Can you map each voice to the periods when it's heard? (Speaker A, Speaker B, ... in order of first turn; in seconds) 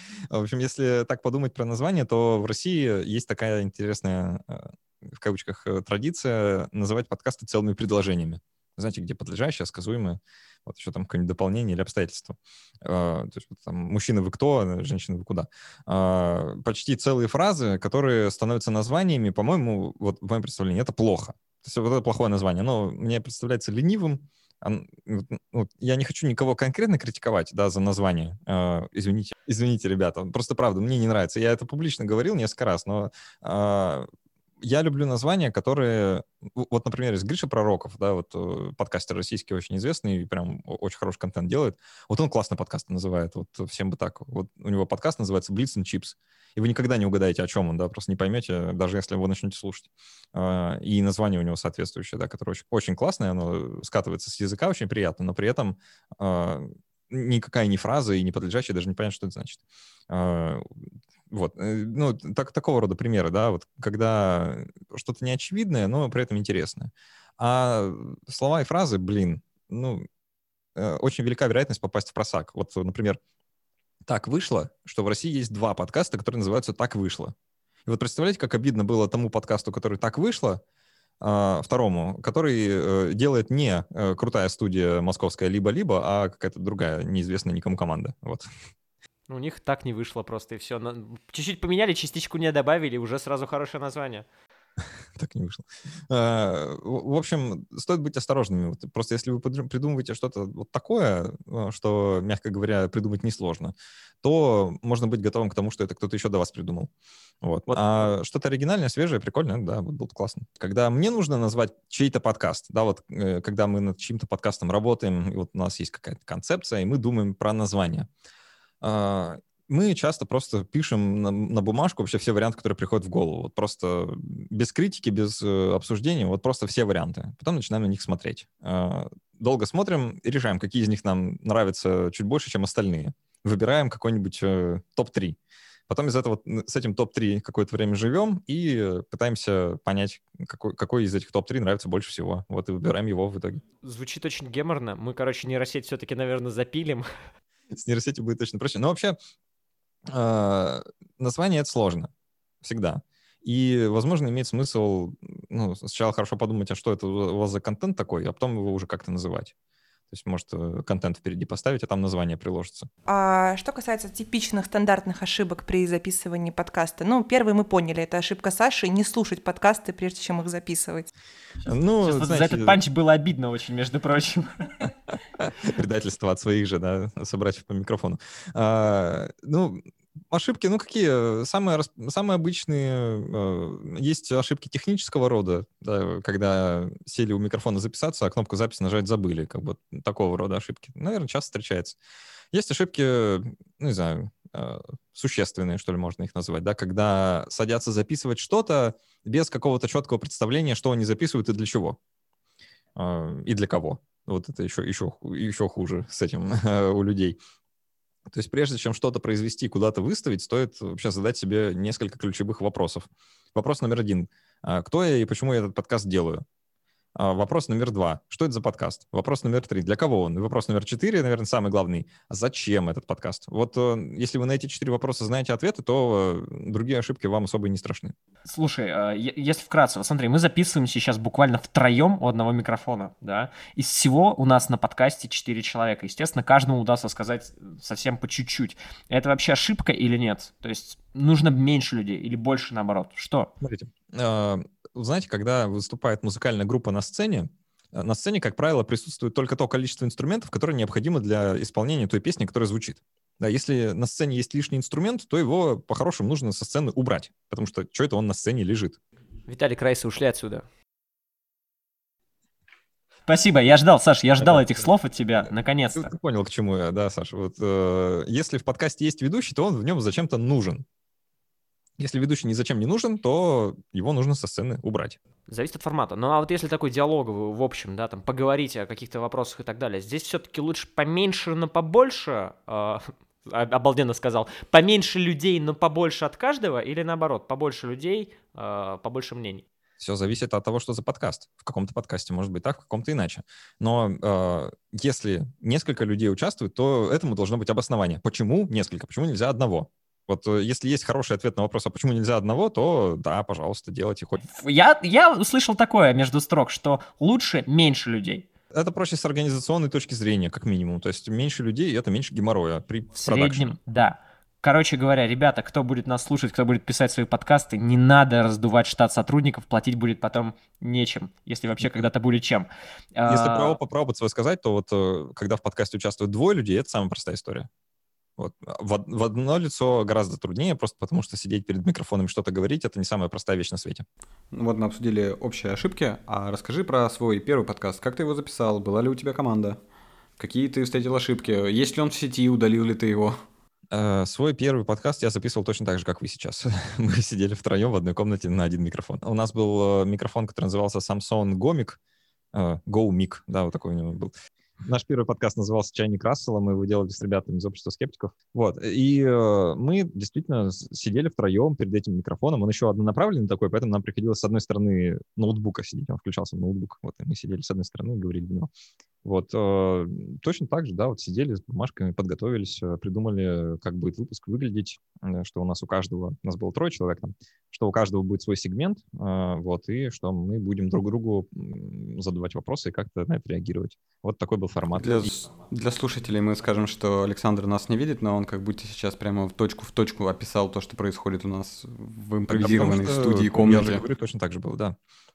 Speaker A: 0.3-34.1, 34.6-70.0, 70.8-73.2, 74.1-77.3, 77.9-80.6, 81.2-88.5, 95.2-106.9, 107.4-118.1, 118.8-135.4, 135.9-143.6, 147.7-149.2, 150.1-152.1, 152.6-159.5, 160.1-162.9, 171.7-172.8, 175.4-192.0, 192.5-202.0, 203.0-207.4, 208.3-216.4, 217.2-228.2, 243.6-259.0, 264.4-264.9, 265.4-270.9, 272.0-275.2, 290.0-304.4, 308.7-313.8, 323.3-327.7, 328.4-334.1, 343.9-352.0, 352.5-354.3, 354.8-368.7, 369.2-385.3, 392.5-395.0
Speaker B: 89.3-94.3, 107.7-108.1, 143.8-147.1, 172.0-174.9, 228.4-243.5, 259.5-260.6, 263.3-266.1, 275.5-289.6, 304.5-308.5, 313.2-323.8
Speaker C: 163.1-171.1
Speaker D: 334.5-339.8, 340.4-343.4, 384.9-394.0